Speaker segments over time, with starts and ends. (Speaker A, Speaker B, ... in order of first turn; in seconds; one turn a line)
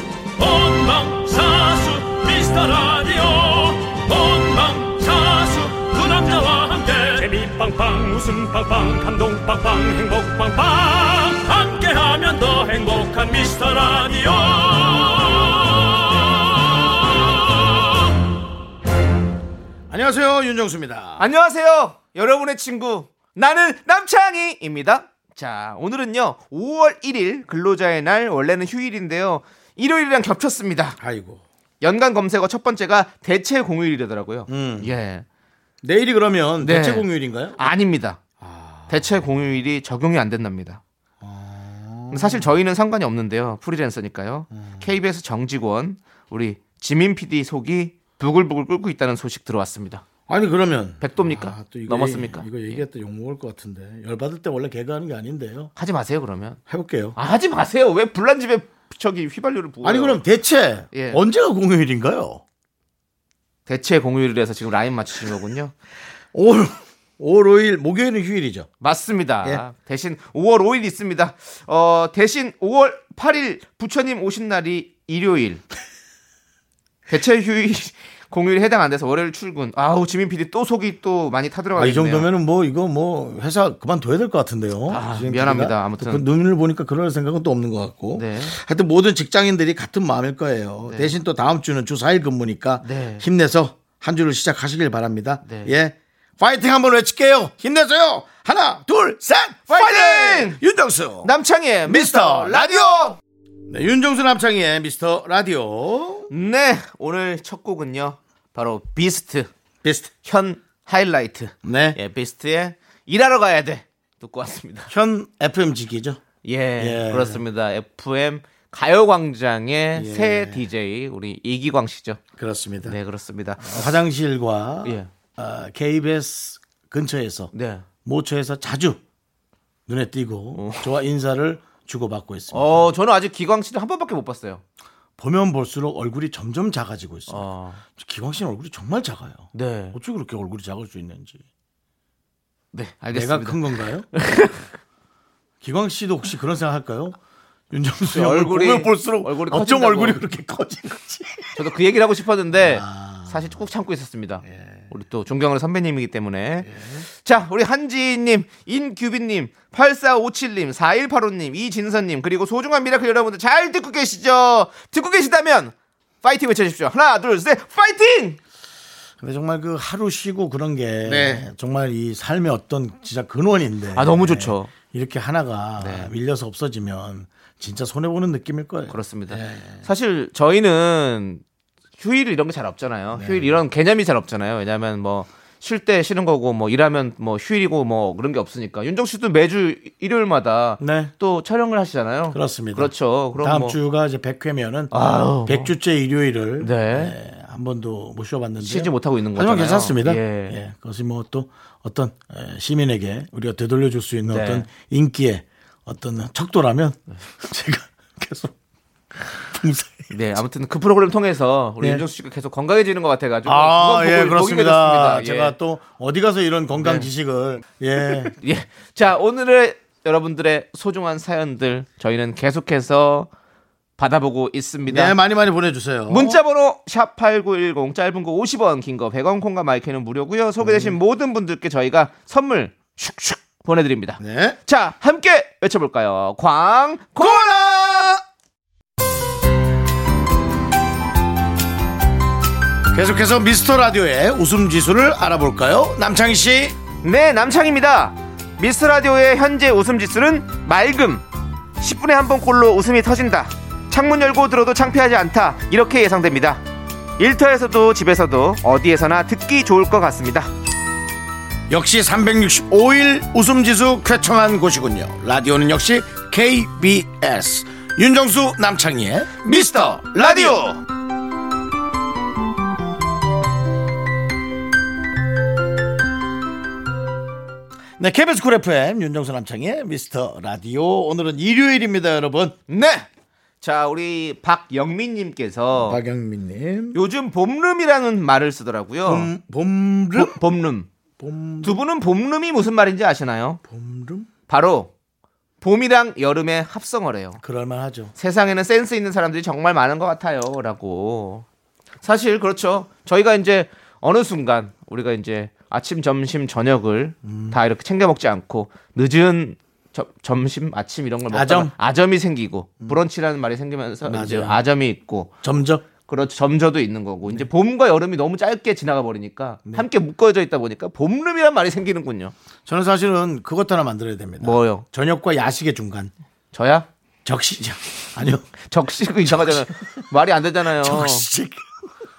Speaker A: 0.4-17.9
Speaker B: 19.9-21.3
Speaker C: 21.2-31.0
Speaker B: 31.0-31.4
Speaker C: 31.8-35.2
Speaker B: 34.5-34.9
Speaker B: 35.8-37.6
Speaker C: 36.6-38.2
Speaker B: 38.4-39.2
Speaker C: 38.9-40.8
Speaker B: 41.2-42.5
Speaker C: 42.1-50.0
Speaker B: 44.5-44.9
Speaker B: 50.3-55.7
Speaker C: 51.0-52.8
Speaker C: 55.8-56.6
Speaker B: 56.7-57.1
Speaker C: 57.1-60.2
Speaker B: 59.8-62.4
Speaker C: 60.9-61.2
Speaker C: 63.7-65.7
Speaker B: 66.3-68.7
Speaker C: 68.8-75.6
Speaker C: 77.1-82.3
Speaker B: 81.8-101.3
Speaker C: 84.9-86.2
Speaker C: 88.1-88.6
Speaker C: 92.8-93.2
Speaker C: 95.4-95.8
Speaker C: 99.7-100.6
Speaker C: 101.2-103.2
Speaker B: 101.8-103.2
Speaker B: 103.7-106.3
Speaker C: 106.3-109.5
Speaker B: 109.8-110.1
Speaker C: 110.2-114.9
Speaker B: 111.6-112.0
Speaker B: 114.9-116.2
Speaker C: 116.4-122.2
Speaker B: 116.8-117.4
Speaker B: 120.0-120.7
Speaker B: 122.4-123.0
Speaker C: 122.8-123.9
Speaker B: 123.6-127.5
Speaker C: 124.8-125.1
Speaker C: 127.5-127.9
Speaker B: 128.0-129.0
Speaker B: 129.9-132.9
Speaker C: 130.6-130.9
Speaker C: 132.5-134.6
Speaker B: 135.2-141.4
Speaker C: 137.3-137.8
Speaker C: 139.5-140.0
Speaker C: 142.7-144.7
Speaker B: 143.1-144.1
Speaker B: 145.6-147.2
Speaker B: 147.7-151.6
Speaker C: 148.1-150.2
Speaker C: 151.6-168.4
Speaker B: 152.5-153.6
Speaker B: 154.4-154.8
Speaker B: 156.6-157.1
Speaker B: 169.2-179.9
Speaker C: 171.1-171.5
Speaker C: 173.9-174.7
Speaker C: 175.8-176.1
Speaker C: 178.9-181.4
Speaker C: 182.0-193.8
Speaker B: 183.1-183.6
Speaker B: 190.8-191.1
Speaker B: 192.3-208.5
Speaker C: 194.9-195.7
Speaker C: 196.6-197.2
Speaker C: 198.6-200.6
Speaker C: 204.3-204.7
Speaker B: 209.2-210.1
Speaker C: 210.1-215.6
Speaker B: 213.4-218.3
Speaker C: 216.8-217.1
Speaker C: 218.4-223.3
Speaker C: 224.0-225.2
Speaker B: 224.9-226.4
Speaker C: 226.1-237.5
Speaker B: 230.6-231.0
Speaker B: 234.2-234.6
Speaker B: 237.2-238.2
Speaker B: 242.9-246.8
Speaker C: 247.0-251.2
Speaker C: 251.8-256.6
Speaker C: 257.2-260.5
Speaker B: 261.7-270.8
Speaker C: 269.4-270.7
Speaker B: 278.0-282.6
Speaker C: 282.7-283.1
Speaker C: 283.6-286.0
Speaker B: 285.7-287.0
Speaker C: 286.9-289.3
Speaker B: 289.0-290.4
Speaker C: 290.1-290.9
Speaker B: 291.2-291.8
Speaker C: 291.6-293.6
Speaker B: 293.7-294.3
Speaker C: 294.5-294.9
Speaker C: 295.6-297.4
Speaker B: 297.4-298.1
Speaker C: 298.1-301.4
Speaker C: 302.0-315.3
Speaker B: 307.2-307.6
Speaker B: 311.3-311.7
Speaker B: 314.0-314.6
Speaker B: 315.4-315.8
Speaker C: 316.1-322.3
Speaker B: 322.6-326.1
Speaker C: 324.4-324.8
Speaker C: 326.5-326.9
Speaker B: 327.2-328.5
Speaker C: 328.7-331.3
Speaker B: 329.3-329.7
Speaker B: 330.8-331.7